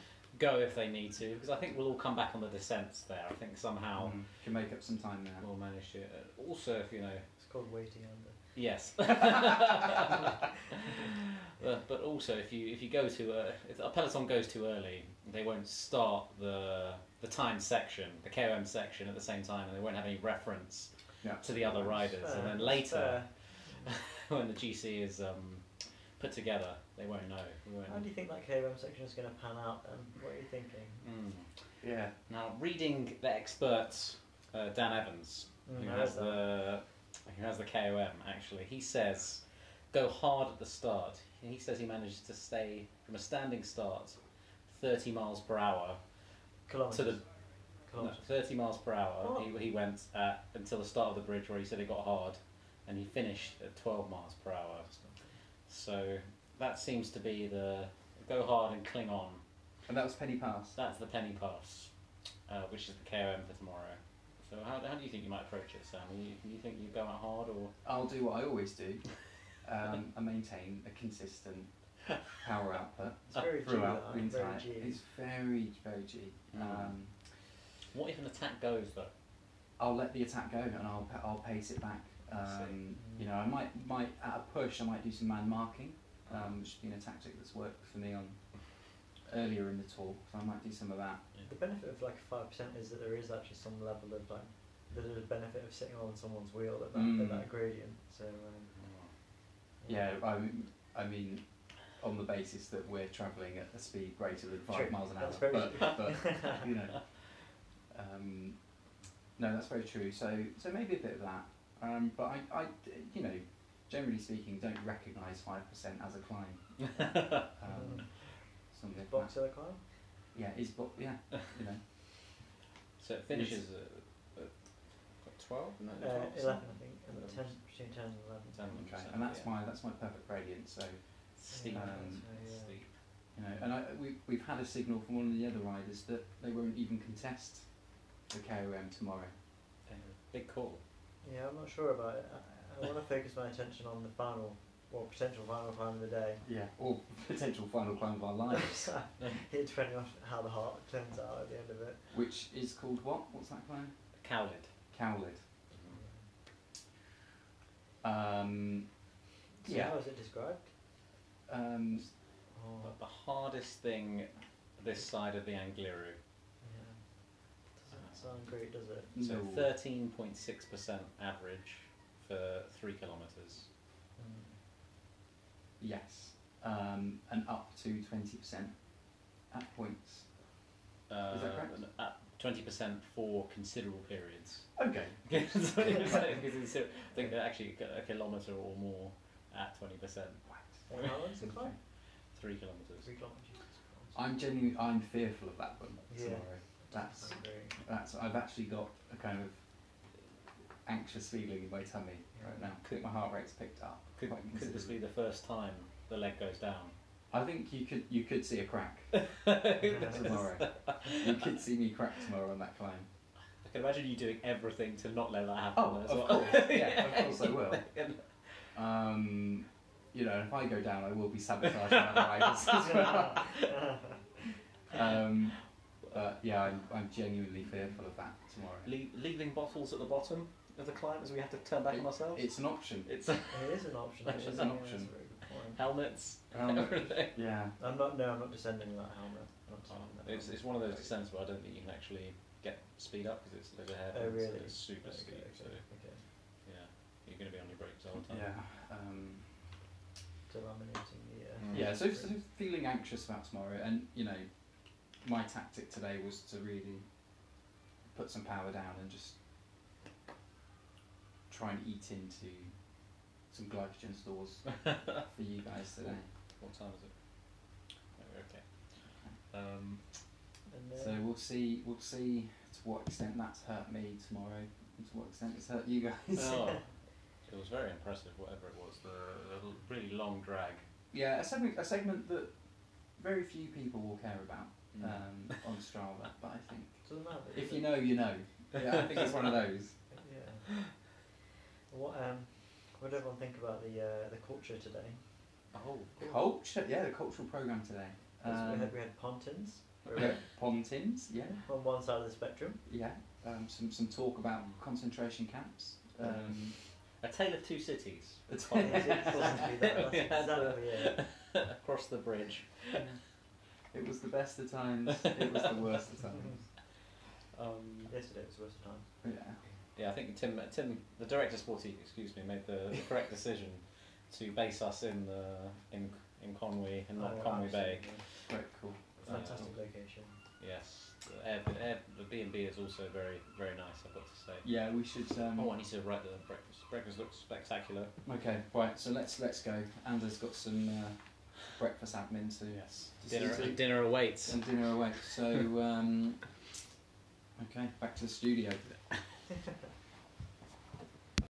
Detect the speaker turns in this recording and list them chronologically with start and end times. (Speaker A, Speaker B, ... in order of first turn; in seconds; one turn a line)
Speaker A: 0.3-4.2
Speaker B: 4.0-5.5
Speaker A: 5.4-7.2
Speaker C: 7.4-8.4
Speaker A: 8.6-28.1
Speaker B: 21.2-22.1
Speaker C: 22.0-23.9
Speaker C: 27.9-31.0
Speaker A: 31.0-31.5
Speaker B: 31.8-32.1
Speaker A: 32.3-46.0
Speaker C: 35.7-36.5
Speaker C: 46.7-47.2
Speaker A: 46.9-47.2
Speaker C: 47.9-48.2
Speaker A: 48.0-54.9
Speaker C: 49.2-49.5
Speaker C: 54.9-55.3
Speaker A: 55.7-59.4
Speaker B: 59.9-60.8
Speaker A: 60.8-61.9
Speaker A: 62.5-67.7
Speaker B: 67.8-69.1
Speaker B: 69.6-71.7
Speaker B: 72.4-77.1
Speaker C: 73.3-75.0
Speaker A: 76.5-77.0
Speaker A: 77.9-79.1
Speaker B: 79.8-91.2
Speaker A: 82.4-82.8
Speaker C: 83.0-83.3
Speaker A: 86.3-86.6
Speaker C: 91.4-98.7
Speaker B: 96.9-97.5
Speaker A: 98.7-99.1
Speaker C: 99.8-100.1
Speaker B: 99.9-107.3
Speaker C: 104.7-106.7
Speaker B: 107.9-108.6
Speaker B: 109.4-118.1
Speaker A: 117.0-117.4
Speaker C: 117.7-118.1
Speaker B: 118.7-119.5
Speaker C: 118.9-119.8
Speaker B: 120.3-122.3
Speaker A: 123.0-124.5
Speaker B: 123.3-123.6
Speaker A: 125.2-127.6
Speaker C: 126.0-128.7
Speaker A: 128.5-129.5
Speaker B: 128.7-131.0
Speaker A: 131.4-132.9
Speaker C: 131.5-132.8
Speaker B: 131.7-132.2
Speaker B: 133.3-137.7
Speaker B: 138.3-139.3
Speaker A: 139.9-140.8
Speaker C: 141.2-146.4
Speaker B: 146.4-148.9
Speaker C: 148.6-152.1
Speaker B: 152.1-153.9
Speaker A: 154.2-154.7
Speaker B: 154.9-155.4
Speaker A: 155.7-156.0
Speaker C: 155.9-156.3
Speaker B: 158.0-158.9
Speaker C: 159.6-160.7
Speaker B: 159.6-160.0
Speaker B: 161.5-162.1
Speaker C: 162.5-163.0
Speaker A: 162.8-166.2
Speaker C: 166.6-169.2
Speaker A: 167.9-168.3
Speaker B: 169.2-169.7
Speaker A: 169.2-173.7
Speaker C: 174.2-174.6
Speaker B: 175.8-178.7
Speaker B: 179.5-180.3
Speaker A: 181.1-184.7
Speaker B: 181.3-181.7
Speaker B: 184.8-185.2
Speaker A: 185.3-191.1
Speaker C: 190.9-191.8
Speaker B: 191.4-191.8
Speaker A: 192.3-193.1
Speaker C: 193.0-194.2
Speaker B: 194.1-199.6
Speaker C: 196.1-197.8
Speaker B: 200.9-205.0
Speaker C: 202.3-202.7
Speaker A: 204.2-206.9
Speaker B: 207.3-209.2
Speaker A: 209.1-211.5
Speaker C: 209.8-210.4
Speaker B: 210.0-213.1
Speaker A: 213.6-218.4
Speaker B: 215.8-217.9
Speaker B: 218.7-223.7
Speaker A: 221.7-222.9
Speaker C: 222.9-224.2
Speaker B: 224.9-228.9
Speaker A: 228.8-234.7
Speaker B: 231.9-233.1
Speaker C: 233.5-235.8
Speaker B: 234.3-235.1
Speaker A: 235.6-237.4
Speaker B: 236.5-237.8
Speaker C: 237.8-240.6
Speaker A: 239.9-245.8
Speaker C: 244.1-246.2
Speaker A: 246.7-248.5
Speaker B: 248.3-249.6
Speaker C: 250.5-252.3
Speaker A: 251.6-251.9
Speaker B: 251.7-254.5
Speaker B: 255.2-257.1
Speaker B: 258.1-259.4
Speaker B: 261.5-262.8
Speaker B: 263.5-266.3
Speaker A: 266.6-270.2
Speaker C: 270.7-271.2
Speaker B: 270.9-276.8
Speaker A: 276.4-280.8
Speaker B: 281.1-282.5
Speaker B: 283.1-289.9
Speaker A: 284.9-285.2
Speaker C: 287.1-288.1
Speaker A: 288.8-289.7
Speaker C: 290.1-290.8
Speaker C: 291.9-295.2
Speaker A: 295.7-296.4
Speaker B: 296.2-298.9
Speaker C: 298.4-300.4
Speaker B: 300.1-301.6
Speaker C: 301.6-302.8
Speaker B: 302.9-306.8
Speaker A: 306.2-313.1
Speaker B: 308.5-309.7
Speaker C: 308.8-311.2
Speaker B: 312.9-313.2
Speaker B: 313.9-316.7
Speaker A: 315.3-315.8
Speaker A: 317.5-318.1
Speaker C: 318.1-319.1
Speaker B: 319.2-319.6
Speaker A: 319.9-328.5
Speaker C: 327.2-328.2
Speaker B: 328.5-329.7
Speaker C: 329.2-330.4
Speaker A: 329.2-329.8
Speaker A: 330.6-334.7
Speaker B: 334.6-335.8
Speaker A: 335.6-338.2
Speaker B: 338.2-346.5
Speaker A: 342.7-345.3
Speaker B: 347.6-349.0